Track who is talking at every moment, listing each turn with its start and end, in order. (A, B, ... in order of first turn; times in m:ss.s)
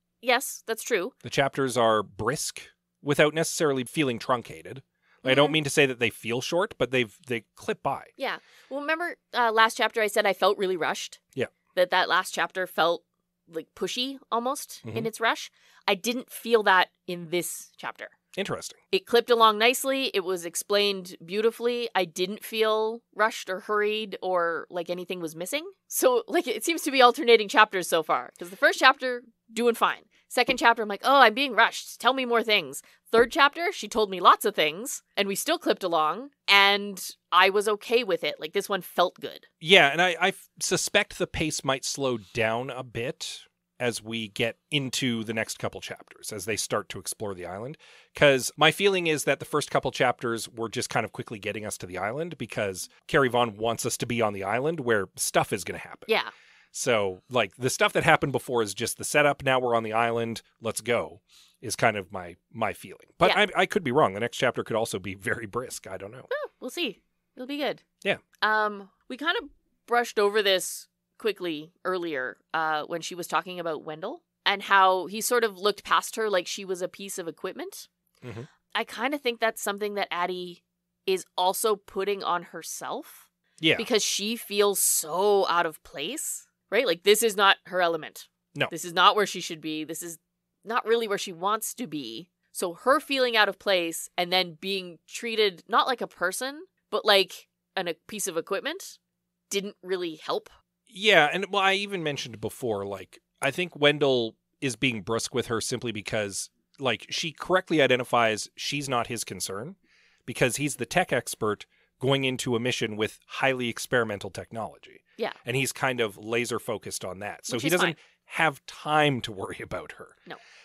0:00.2-0:01.1 A
0:01.2-0:08.1 B
0:05.2-0:05.6 A
0:08.2-0:11.2 A
0:11.7-0:18.1 A
0:14.8-0:15.1 B
0:18.4-0:18.8 B
0:18.9-0:39.4 A
0:39.6-0:56.1 B
0:56.7-1:06.3 B
1:06.3-1:07.8 A
1:08.4-1:17.9 A
1:18.2-1:18.5 B
1:18.7-1:39.0 A
1:23.6-1:23.9 B
1:39.5-1:40.5 A
1:40.9-2:00.2 B
1:57.5-1:58.0 A